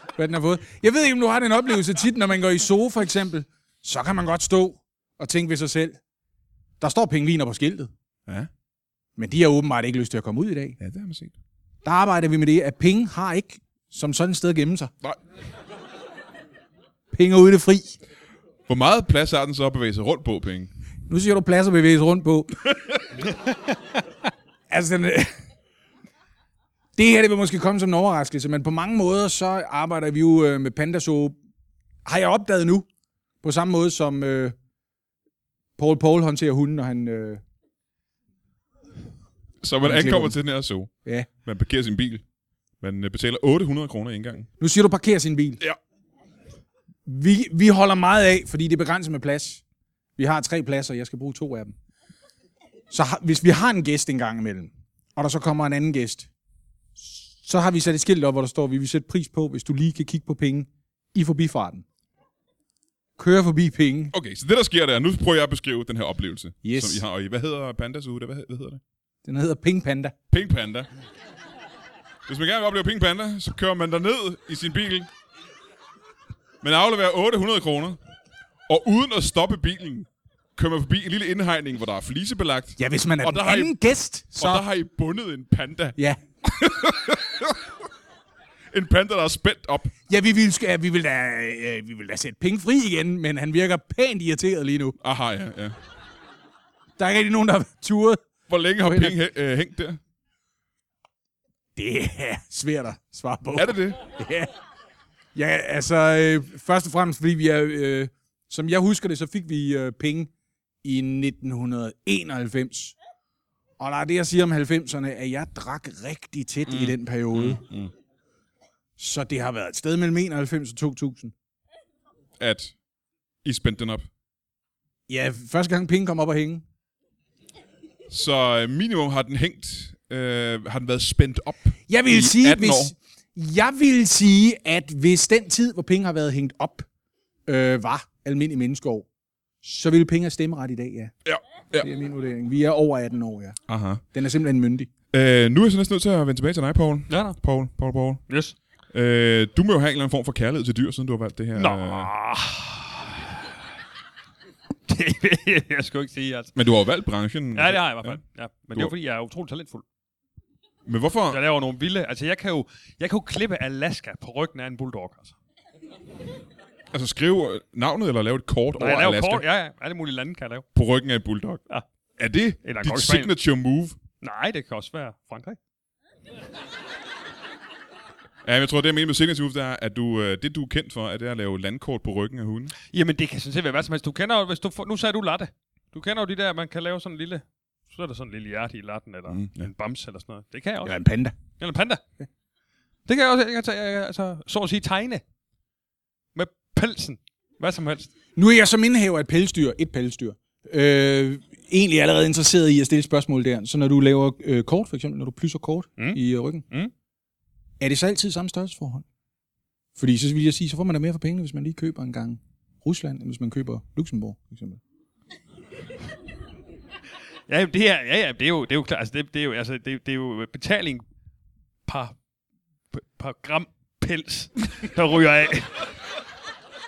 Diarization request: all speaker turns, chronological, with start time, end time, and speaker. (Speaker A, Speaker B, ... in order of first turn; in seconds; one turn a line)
Speaker A: 0.1-6.0
Speaker A: 6.8-7.9
Speaker A: 9.2-10.8
Speaker B: 10.8-11.3
Speaker A: 11.8-14.9
Speaker A: 17.1-18.0
Speaker B: 18.7-20.7
Speaker A: 21.1-22.7
Speaker A: 24.7-25.3
Speaker A: 27.0-31.4
Speaker A: 32.0-32.9
Speaker A: 33.4-34.5
Speaker A: 35.8-37.4
Speaker B: 39.6-40.9
Speaker A: 39.8-40.4
Speaker B: 41.4-42.2
Speaker B: 42.8-44.5
Speaker A: 44.6-45.6
Speaker A: 47.0-49.6
Speaker A: 50.2-51.8
Speaker A: 52.9-56.3
Speaker A: 57.0-61.9
Speaker A: 63.2-64.1
Speaker B: 64.1-68.8
Speaker A: 66.6-67.0
Speaker A: 69.2-70.2
Speaker B: 70.3-70.9
Speaker B: 72.3-75.1
Speaker B: 76.6-78.0
Speaker B: 78.7-83.8
Speaker A: 82.8-84.6
Speaker B: 84.3-87.6
Speaker B: 88.7-89.9
Speaker A: 90.1-95.0
Speaker B: 95.0-95.8
Speaker A: 97.0-98.2
Speaker B: 98.5-100.0
Speaker A: 98.8-99.2
Speaker A: 101.8-104.5
Speaker B: 103.5-104.0
Speaker A: 105.3-110.3
Speaker A: 110.8-113.0
Speaker A: 113.8-117.6
Speaker B: 116.7-117.9
Speaker A: 119.0-121.3
Speaker B: 122.4-122.8
Speaker B: 123.4-124.1
Speaker A: 125.1-126.6
Speaker B: 128.1-132.9
Speaker A: 131.9-136.9
Speaker A: 137.5-139.1
Speaker A: 139.6-141.1
Speaker B: 141.2-141.9
Speaker A: 141.8-143.6
Speaker B: 143.7-144.0
Speaker A: 144.1-144.9
Speaker B: 145.1-148.2
Speaker C: 147.1-147.4
Speaker C: 148.3-148.6
Speaker B: 148.9-152.1
Speaker C: 151.6-153.3
Speaker C: 154.9-156.5
Speaker B: 156.6-158.2
Speaker C: 157.6-159.8
Speaker B: 160.9-161.4
Speaker C: 161.3-165.4
Speaker B: 166.9-169.4
Speaker C: 168.8-170.7
Speaker B: 170.7-171.6
Speaker B: 172.2-174.0
Speaker C: 172.6-173.3
Speaker C: 174.2-175.6
Speaker B: 178.4-182.7
Speaker C: 182.9-191.0
Speaker B: 189.3-189.7
Speaker A: 190.8-191.4
Speaker C: 191.6-192.0
Speaker C: 193.1-195.2
Speaker C: 196.3-198.1
Speaker A: 198.4-206.6
Speaker A: 207.8-209.1
Speaker A: 210.0-214.8
Speaker C: 217.5-221.0
Speaker C: 221.9-222.2
Speaker C: 222.9-225.8